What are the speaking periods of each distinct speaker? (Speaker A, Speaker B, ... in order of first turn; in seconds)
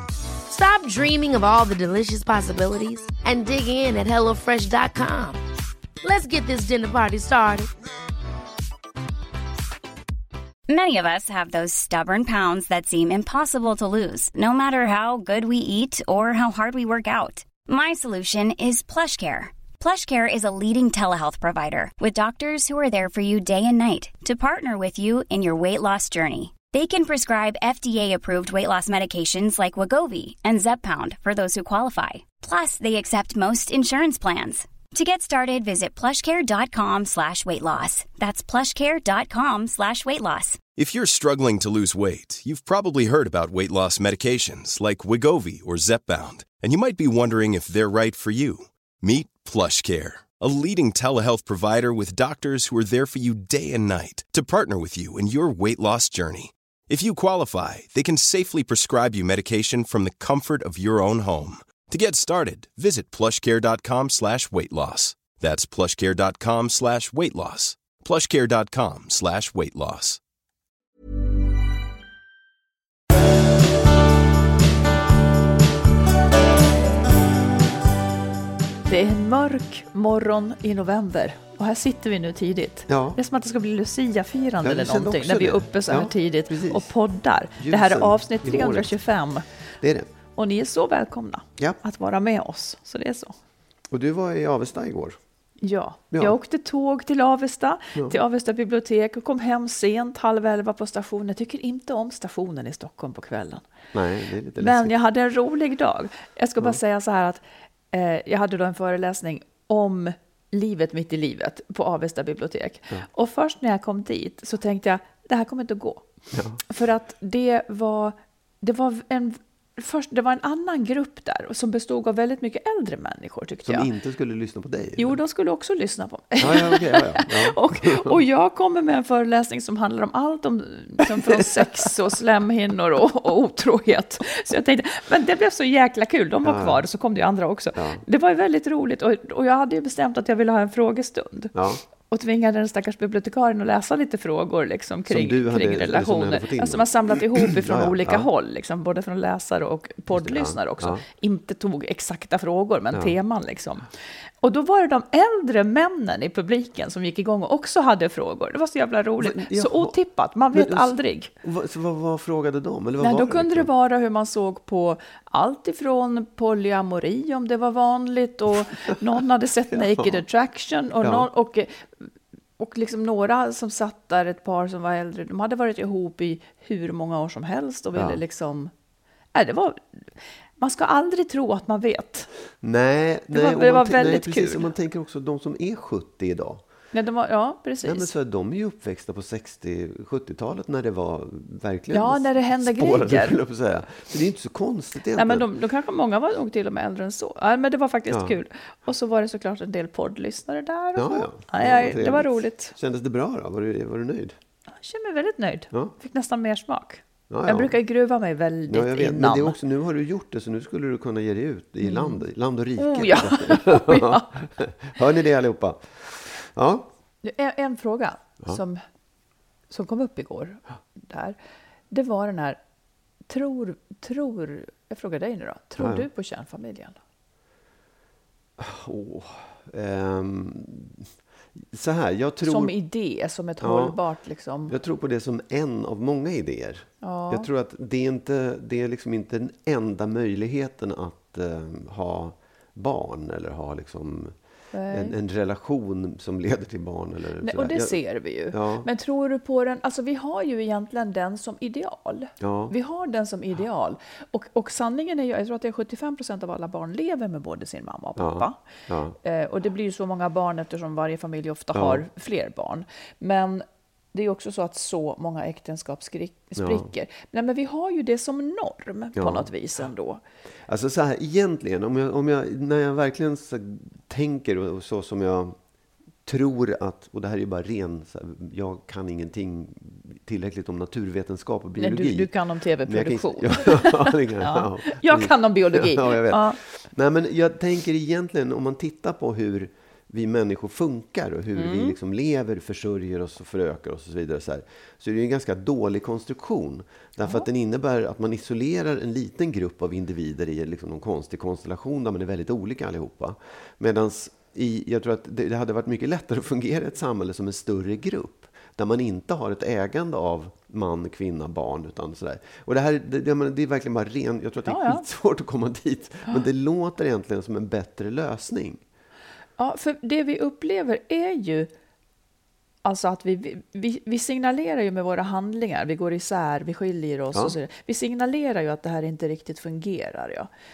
Speaker A: 0.5-5.4, 6.0-7.7
Speaker B: 10.7-40.6
Speaker C: 40.8-70.2
Speaker D: 78.9-89.5, 90.3-93.3, 95.6-103.7, 104.6-116.1, 116.6-123.9, 125.0-153.9, 154.4-161.3, 163.0-178.7, 179.3-180.0, 180.6-182.3, 183.3-184.7, 186.9-188.1, 191.9-193.4, 195.1-202.7, 204.7-209.6, 211.8-212.2, 212.8-214.3, 217.2-218.8, 219.7-221.4, 221.9-222.6, 223.3-227.0, 232.4-234.7, 237.0-237.5, 244.7-245.2, 247.4-258.6, 259.2-270.2, 281.8-286.6, 291.5-292.0, 297.2-297.5, 314.6-315.1, 319.6-321.7, 322.8-330.5
Speaker E: 82.9-83.2, 84.6-86.9, 87.6-89.0, 89.8-90.1, 93.9-95.2, 103.9-104.9, 116.3-116.6, 123.6-125.2, 126.4-128.2, 131.1-131.9, 136.4-136.8, 137.7-138.0, 141.5-141.8, 145.1-148.3, 150.1-151.0, 159.2-159.9, 160.5-163.7, 169.7-170.2, 171.0-171.3, 177.9-178.2, 182.6-186.6, 187.8-195.5, 198.1-198.4, 200.9-204.3, 207.3-207.8, 208.7-216.9, 225.8-226.1, 228.6-232.7, 233.6-234.0, 234.7-244.3, 244.9-248.9, 252.4-252.7, 258.2-259.1, 261.7-262.0, 266.6-266.9, 269.1-269.5, 270.6-275.6, 276.2-282.3, 282.9-318.8